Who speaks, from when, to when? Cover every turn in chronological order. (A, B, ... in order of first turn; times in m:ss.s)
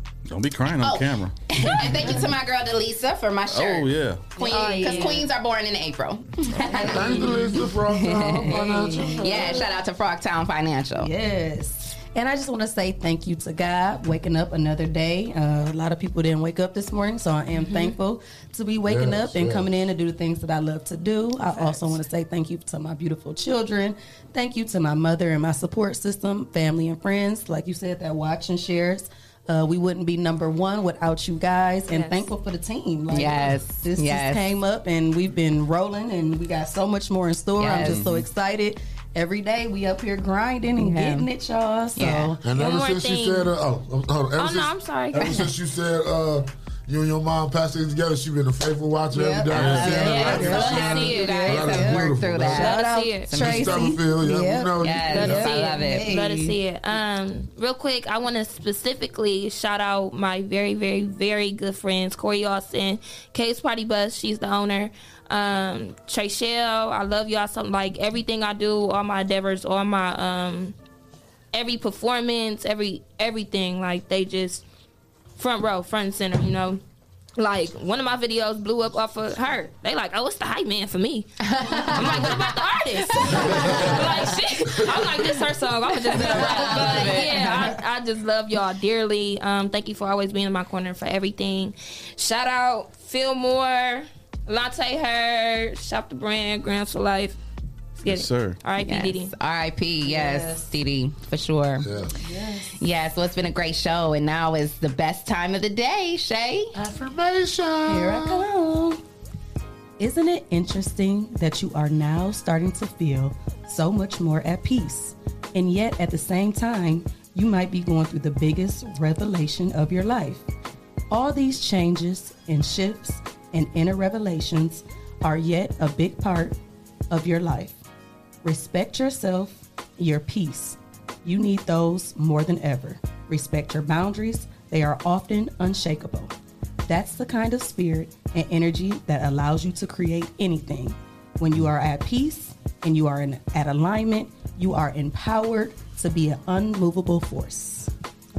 0:00.3-0:01.9 A
0:00.8-0:08.5 B
0:03.5-0:04.3 A
0:04.4-0:05.2 C
0:04.6-0:05.0 D
0:06.6-0:07.6 C
0:06.7-0:09.7 E
0:08.4-0:09.7 C
0:09.2-0:11.1 B
0:11.0-0:42.4 C
0:18.8-0:19.8 E
0:31.9-0:32.3 D
0:33.1-0:34.5 B
0:37.6-0:38.0 B
0:37.8-0:38.2 A
0:40.8-0:41.3 B
0:42.0-0:42.4 B
0:42.4-0:52.7 E
0:42.5-0:43.5 D
0:44.4-0:45.5 D
0:49.1-0:56.6 C
0:49.5-0:50.0 A
0:49.9-0:51.9 D
0:50.2-0:53.8 B
0:52.4-0:53.3 D
0:53.3-0:55.5 E
0:54.8-0:56.2 B
0:55.1-1:10.8 D
1:11.5-1:14.6 D
1:15.4-1:16.8 D
1:17.4-1:37.4 D
1:21.4-1:22.4 B
1:23.3-1:24.0 B
1:23.4-1:23.8 C
1:26.1-1:27.6 B
1:26.2-1:27.5 C
1:38.0-1:39.3 D
1:38.1-1:38.6 A
1:38.8-1:41.9 B
1:40.0-1:40.7 C
1:41.8-1:42.1 E
1:42.2-1:42.8 C
1:42.8-1:46.7 B
1:46.8-1:48.4 E
1:47.9-1:49.0 C
1:50.0-2:00.4 C
2:01.1-2:06.6 C
2:07.1-2:07.8 C
2:08.4-2:16.3 C
2:16.9-2:27.9 C